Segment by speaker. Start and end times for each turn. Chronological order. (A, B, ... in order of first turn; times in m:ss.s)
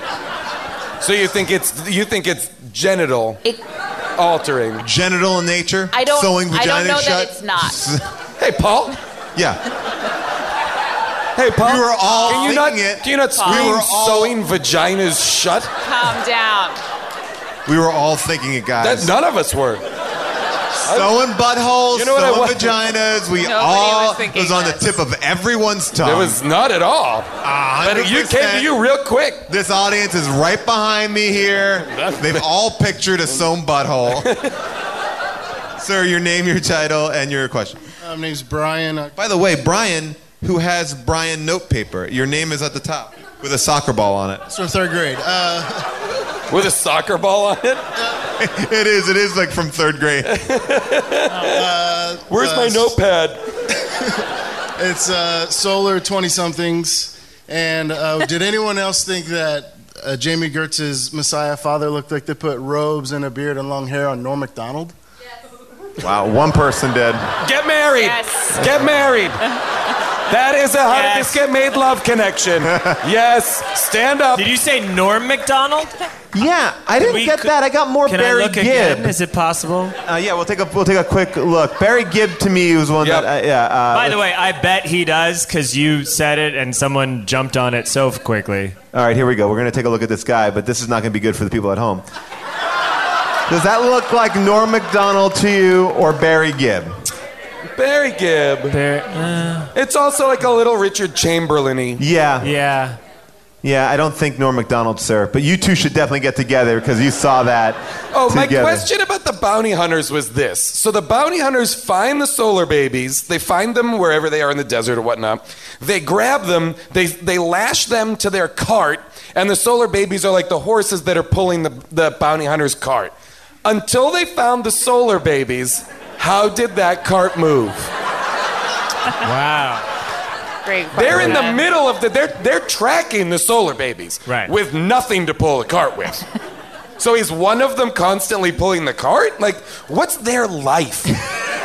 0:01.0-0:03.4 A
0:04.2-0:04.8 A
0:04.8-0:08.0 B
0:05.9-0:07.8 C
0:08.4-0:09.0 A
0:09.4-0:09.6 B
0:11.4-0:15.7 A
0:11.6-0:14.4 B
0:12.0-0:12.7 C
0:13.4-0:13.8 C
0:15.8-0:16.8 C
0:17.7-0:19.2 B
0:18.8-0:19.8 A
0:20.8-0:26.4 B
0:20.8-0:21.1 A
0:21.9-0:22.8 A
0:23.4-0:25.0 C
0:26.0-0:27.3 A
0:27.4-0:28.7 B
0:27.8-0:29.5 A
0:29.5-0:34.3 B
0:31.9-0:32.5 A
0:34.1-0:34.5 A
0:35.8-0:37.8 B
0:38.0-0:39.2 D
0:39.2-0:44.4 B
0:44.5-0:45.9 D
0:46.5-0:47.8 A
0:48.4-0:50.4 B
0:50.2-0:51.7 A
0:51.4-0:52.9 D
0:52.3-0:53.4 A
0:53.9-0:54.2 D
0:54.8-1:05.0 D
1:06.0-1:07.3 B
1:07.4-1:09.4 A
1:08.0-1:08.6 C
1:10.3-1:14.5 A
1:10.9-1:11.4 E
1:12.7-1:13.0 B
1:14.4-1:15.9 E
1:16.3-1:19.2 B
1:17.0-1:17.5 E
1:18.0-1:20.0 E
1:20.0-1:24.2 B
1:23.0-1:23.3 A
1:23.9-1:28.8 E
1:28.9-1:32.0 B
1:33.5-1:36.9 B
1:37.8-1:38.8 A
1:38.7-1:39.7 E
1:39.7-1:42.0 A
1:42.0-1:42.5 B
1:42.4-1:43.0 E
1:43.6-1:48.9 B
1:48.1-2:03.1 A
2:03.6-2:07.9 A
2:09.2-2:09.9 E
2:10.6-2:11.7 C
2:10.9-2:16.3 A
2:11.1-2:11.4 E
2:14.3-2:14.5 E
2:17.0-2:21.1 A